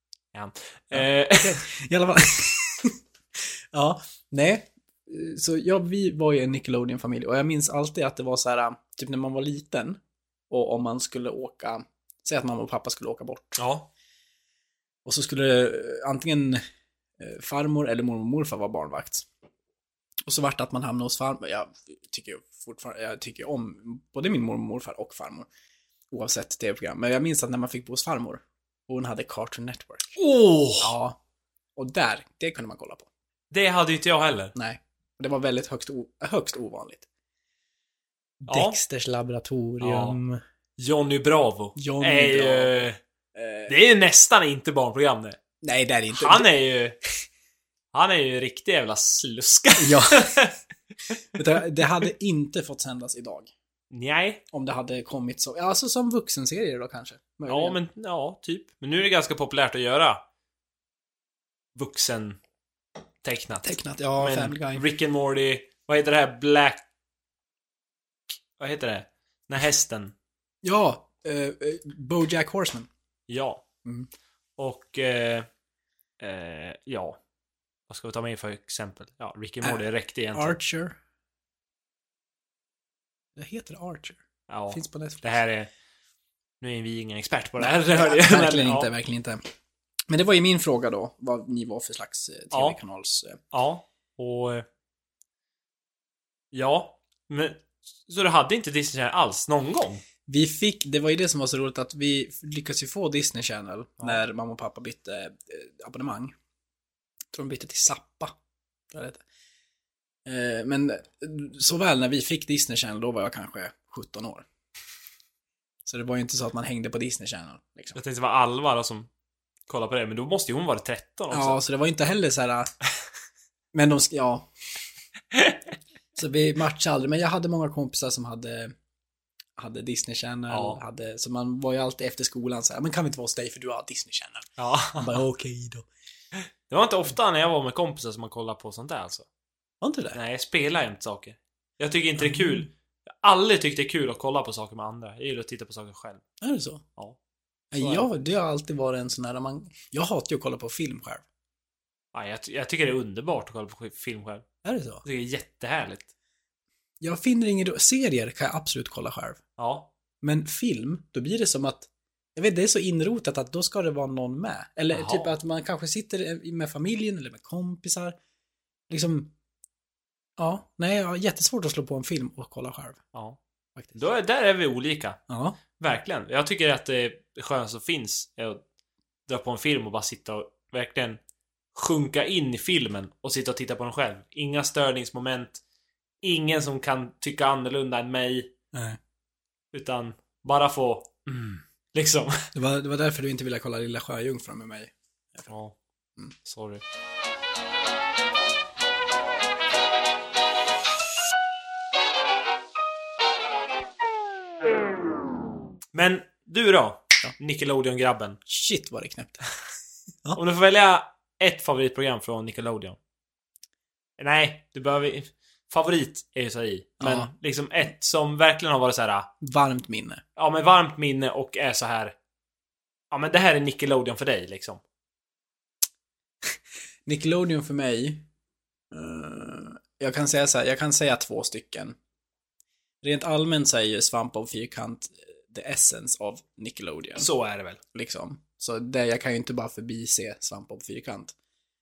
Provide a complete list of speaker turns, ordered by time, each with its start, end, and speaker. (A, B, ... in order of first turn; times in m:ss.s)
0:00.3-0:01.6 A
0:00.9-0:03.0 B
0:03.7-0:13.6 B
0:13.6-0:13.9 A
0:15.0-0:16.6 B
0:17.2-0:19.3 B
0:20.3-0:25.5 B
0:26.1-0:30.2 B
0:30.2-0:30.9 A
0:30.8-0:31.2 B
0:31.8-0:33.1 B
0:33.5-0:34.5 A
0:34.6-0:37.1 B
0:38.4-0:40.4 B
0:38.5-0:38.8 A
0:39.8-0:40.2 A
0:40.8-0:43.0 A
0:41.8-0:43.7 B
0:43.7-0:45.4 A
0:45.6-0:46.5 B
0:46.1-0:47.0 A
0:47.9-0:50.6 A
0:49.8-0:50.3 B
0:51.4-0:53.5 B
0:53.9-0:54.4 A
0:54.5-0:57.8 B
0:57.5-1:00.2 A
1:01.8-1:02.4 A
1:03.2-1:06.8 A
1:03.6-1:04.8 B
1:08.6-1:10.1 A
1:10.6-1:12.9 B
1:13.3-1:13.6 A
1:14.6-1:15.5 A
1:16.2-1:17.2 A
1:17.9-1:20.6 A
1:19.6-1:21.0 B
1:23.4-1:25.3 B
1:24.5-1:25.7 A
1:26.6-1:28.9 A
1:27.6-1:29.4 B
1:30.1-1:33.4 B
1:32.5-1:32.8 A
1:33.5-1:34.7 A
1:36.5-1:40.0 A
1:40.3-1:46.3 B
1:47.3-1:48.4 B
1:48.9-1:49.2 B
1:50.2-1:54.4 B
1:55.8-1:58.0 B
1:58.0-1:59.1 A
1:59.7-2:01.6 A
2:01.3-2:02.7 B
2:03.7-2:04.5 B
2:06.2-2:08.8 B
2:09.6-2:15.9 B
2:10.5-2:10.8 A
2:14.6-2:15.2 A
2:16.7-2:19.3 A
2:19.8-2:20.2 B
2:20.1-2:26.2 A
2:22.2-2:22.7 B
2:26.4-2:26.8 B
2:27.7-2:31.2 B
2:27.8-2:28.2 A
2:32.1-2:34.4 A
2:34.6-2:35.0 B
2:35.0-2:36.1 A
2:37.0-2:39.4 B
2:39.6-2:39.9 A
2:40.2-2:48.2 B
2:44.9-2:45.3 A
2:48.9-2:49.3 B
2:50.4-2:53.0 B
2:53.1-2:53.4 A
2:53.9-2:55.2 A
2:55.3-2:55.6 B
2:55.8-2:58.6 A
2:59.3-3:01.2 A
3:01.7-3:05.6 A
3:06.2-3:08.5 A
3:08.7-3:09.0 B
3:09.7-3:12.5 A
3:12.6-3:15.5 B
3:15.5-3:15.8 A
3:16.4-3:16.8 A
3:25.9-3:28.4 A
3:28.5-3:29.4 B
3:30.4-3:33.0 A
3:34.2-3:39.3 A
3:37.0-3:37.3 B
3:39.4-3:40.2 B
3:40.4-3:42.2 A
3:43.1-3:44.8 A
3:47.1-3:48.2 B
3:48.9-3:52.0 B
3:53.0-3:57.3 B
3:57.2-3:57.8 A
3:57.9-4:01.3 B